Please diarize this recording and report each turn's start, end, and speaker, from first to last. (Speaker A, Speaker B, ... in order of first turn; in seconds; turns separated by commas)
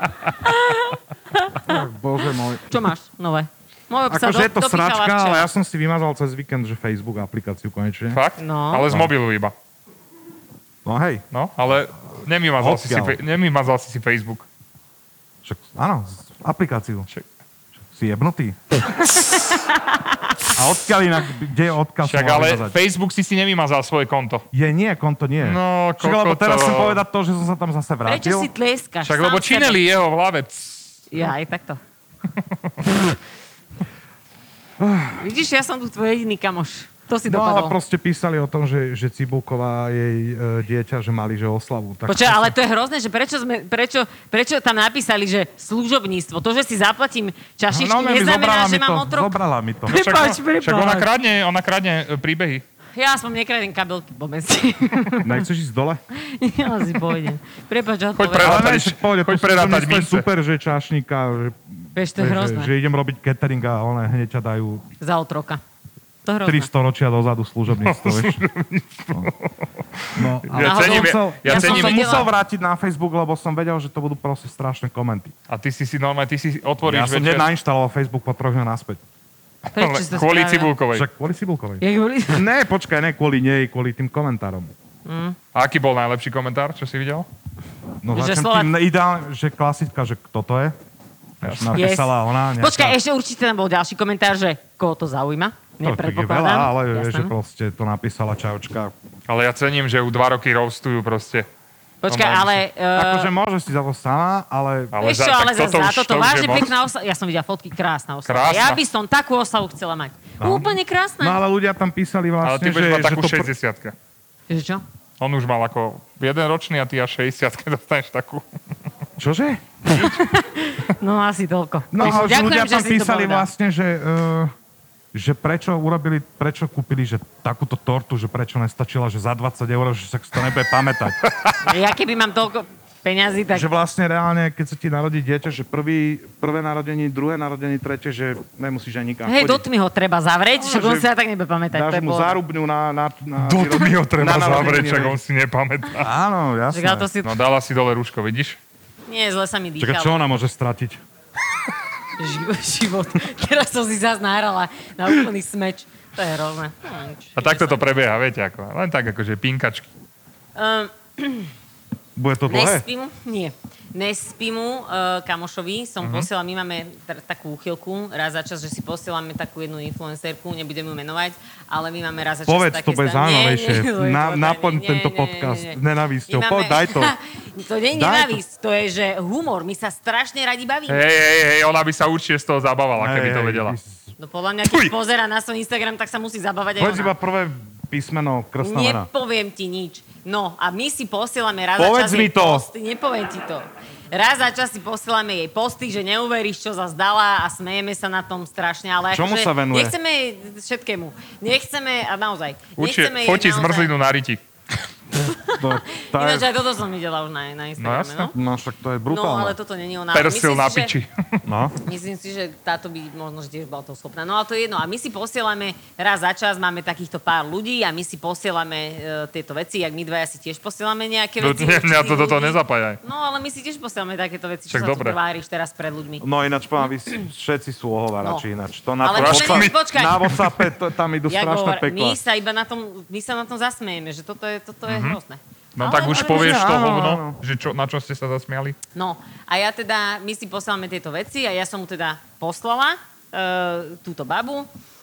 Speaker A: 0.5-1.6, Speaker B: 1.6-2.8, Speaker A: 2.7-5.5, Speaker B: 4.1-8.2, Speaker C: 8.1-9.5, Speaker A: 8.4-8.8, Speaker B: 10.8-11.2, Speaker C: 11.3-14.4, Speaker B: 12.6-13.2, Speaker B: 15.4-17.1, Speaker B: 17.9-18.6, Speaker A: 19.5-19.8, Speaker B: 20.5-22.8, Speaker C: 22.1-24.4, Speaker B: 24.5-28.5, Speaker C: 25.4-27.0, Speaker A: 28.1-29.8, Speaker C: 29.0-31.0, Speaker A: 31.1-31.8, Speaker B: 34.8-35.2, Speaker A: 35.2-37.8, Speaker B: 37.3-42.5, Speaker A: 42.1-49.4, Speaker B: 47.7-50.0, Speaker A: 49.9-51.1, Speaker C: 49.9-52.6, Speaker A: 53.0-55.4, Speaker B: 55.2-56.0, Speaker A: 56.3-58.8, Speaker C: 58.2-60.3, Speaker B: 58.4-61.6, Speaker A: 62.0-62.7, Speaker B: 62.1-64.8, Speaker A: 65.0-65.6, Speaker A: 66.2-66.7, Speaker B: 66.5-68.4, Speaker C: 67.8-72.2, Speaker B: 70.2-75.3, Speaker A: 70.6-72.3, Speaker C: 75.5-77.5, Speaker B: 76.8-79.0, Speaker A: 79.8-80.7, Speaker C: 79.8-81.1, Speaker B: 80.9-84.7, Speaker A: 81.8-82.4, Speaker A: 85.1-85.4, Speaker C: 85.5-87.3, Speaker B: 88.0-90.8, Speaker A: 88.1-88.7, Speaker B: 91.4-93.0, Speaker C: 91.4-91.8, Speaker A: 91.8-97.3, Speaker B: 95.8-98.9, Speaker C: 99.3-101.5, Speaker A: 102.0-103.3, Speaker B: 103.0-105.0, Speaker C: 104.9-106.7, Speaker A: 105.0-111.4, Speaker C: 108.3-108.8, Speaker B: 110.4-113.5, Speaker C: 112.4-114.0, Speaker A: 114.5-114.8, Speaker C: 115.2-118.4, Speaker B: 119.2-119.6, Speaker A: 119.9-123.5, Speaker B: 121.9-124.5, Speaker B: 125.1-131.2, Speaker A: 131.6-133.7, Speaker B: 133.5-139.7, Speaker A: 139.3-142.4, Speaker B: 140.6-141.1, Speaker B: 141.7-145.2, Speaker C: 143.4-146.1, Speaker B: 146.0-147.1, Speaker A: 146.7-147.3, Speaker C: 147.2-148.6, Speaker A: 149.1-150.2, Speaker B: 149.8-151.0, Speaker A: 152.2-157.8, Speaker C: 157.4-159.9, Speaker A: 160.6-161.5, Speaker B: 162.2-162.8, Speaker A: 162.5-181.0, Speaker C: 166.0-166.3, Speaker B: 172.5-177.1, Speaker B: 177.9-178.4, Speaker C: 180.9-183.8, Speaker B: 183.0-184.0, Speaker A: 184.2-187.1, Speaker B: 186.8-189.1, Speaker A: 188.6-203.9, Speaker B: 191.8-192.7, Speaker B: 199.1-199.9, Speaker C: 202.8-204.4, Speaker A: 205.3-208.3, Speaker B: 205.6-206.5, Speaker C: 207.8-208.3, Speaker B: 208.3-209.6, Speaker A: 209.1-210.9, Speaker C: 210.1-211.1, Speaker B: 211.5-211.7, Speaker A: 211.8-226.2, Speaker C: 221.4-223.0, Speaker C: 224.7-225.2, Speaker B: 226.2-232.2, Speaker A: 229.0-230.3, Speaker C: 229.1-230.4, Speaker A: 231.3-236.7, Speaker C: 234.9-235.2, Speaker C: 235.8-238.8, Speaker B: 235.9-237.4, Speaker A: 238.9-244.7